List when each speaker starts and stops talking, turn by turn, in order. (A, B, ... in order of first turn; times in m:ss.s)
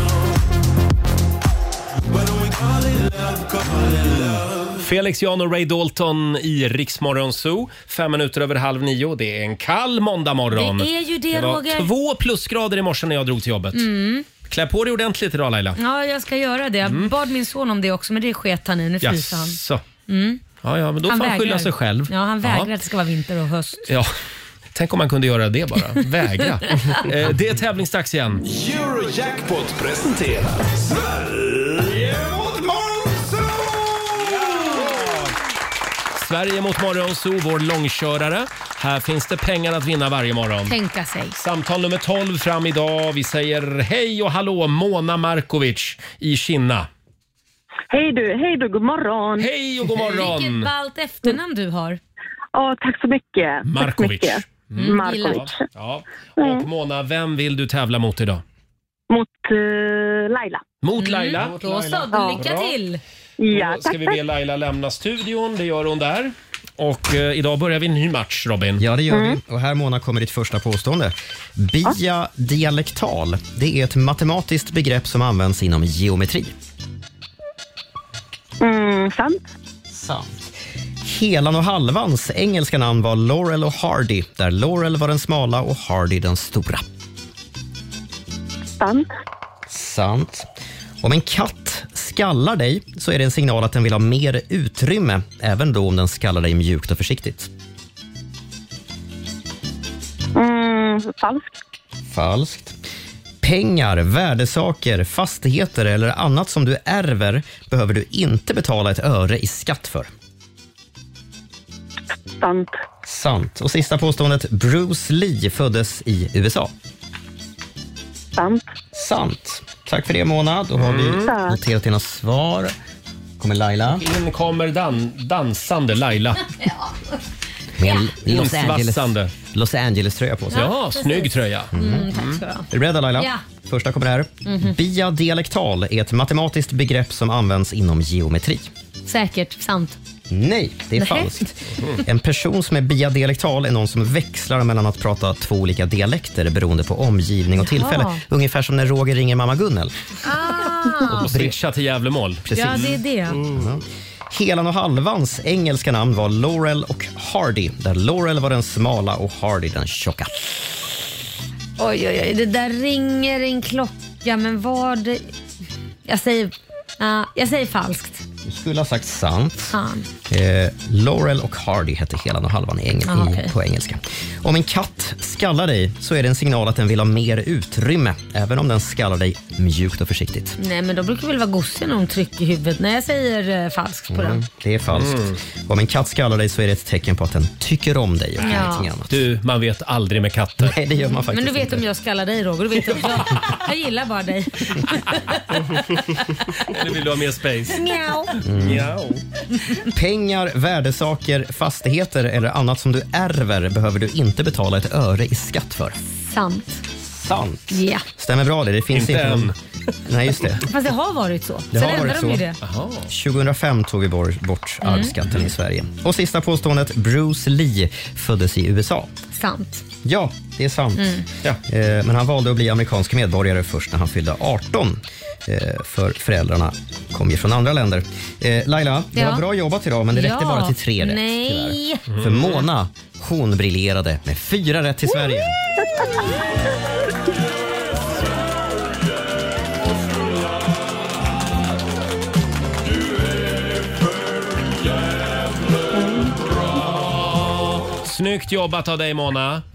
0:04.1-0:13.8 A
0:10.5-0:11.9 B
0:13.7-0:14.2 B
0:14.5-0:15.8 A
0:15.8-0:19.6 B
0:16.8-0:17.1 A
0:19.0-0:19.8 A
0:20.1-0:20.4 B
0:20.6-0:22.7 A
0:21.1-0:23.8 B
0:24.7-0:28.4 A
0:28.4-0:35.0 C
0:34.2-0:35.3 A
0:36.1-0:40.7 A
0:40.7-0:41.4 B
0:41.4-0:46.9 A
0:47.9-0:49.3 D
0:49.4-0:50.7 A
0:50.0-0:52.0 B
0:52.7-0:54.2 D
0:53.7-0:58.4 A
0:54.8-0:55.4 B
0:54.9-0:55.4 D
0:59.1-1:00.5 D
1:00.8-1:02.7 A
1:01.0-1:03.0 B
1:03.5-1:08.8 A
1:08.8-1:16.5 E
1:18.6-1:19.3 D
1:19.9-1:20.4 E
1:21.0-1:26.8 E
1:29.7-1:30.5 E
1:31.0-1:37.5 E
1:40.5-1:41.3 D
1:42.1-1:42.8 E
1:43.4-1:50.1 E
1:52.4-1:52.7 D
1:53.0-1:56.7 E
1:58.9-2:02.7 E
2:00.8-2:01.3 A
2:03.4-2:04.0 E
2:03.9-2:06.5 A
2:06.6-2:07.2 B
2:07.8-2:10.7 E
2:08.2-2:09.3 A
2:10.5-2:13.4 B
2:10.5-2:12.4 A
2:11.7-2:12.1 E
2:12.7-2:18.7 E
2:14.4-2:14.7 B
2:19.0-2:20.0 B
2:20.3-2:29.9 E
2:21.0-2:21.4 B
2:27.6-2:28.2 B
2:30.2-2:31.2 B
2:31.0-2:31.6 E
2:31.1-2:32.4 A
2:32.4-2:40.6 E
2:32.5-2:33.4 B
2:41.8-2:45.3 B
2:46.0-2:48.2 B
2:48.4-2:49.8 E
2:49.7-2:50.0 B
2:50.3-3:00.6 E
2:53.1-2:53.5 B
3:00.6-3:04.4 B
3:04.1-3:09.3 E
3:04.9-3:05.4 A
3:08.4-3:08.9 B
3:08.4-3:10.8 A
3:10.6-3:11.8 E
3:11.3-3:15.6 B
3:16.6-3:17.8 A
3:17.7-3:18.4 B
3:18.4-3:19.2 A
3:18.4-3:18.9 E
3:19.9-3:26.0 E
3:26.2-3:26.8 B
3:27.0-3:29.5 E
3:27.7-3:28.0 B
3:28.9-3:29.5 A
3:30.0-3:30.6 E
3:30.6-3:32.6 B
3:31.7-3:32.4 E
3:32.6-3:33.1 A
3:33.1-3:39.1 E
3:34.8-3:35.1 B
3:39.3-3:39.8 B
3:40.0-3:41.1 E
3:41.0-3:41.2 B
3:41.7-3:55.6 E
3:49.1-3:49.4 B
3:50.1-3:52.0 B
3:52.1-3:52.6 A
4:06.9-4:09.6 A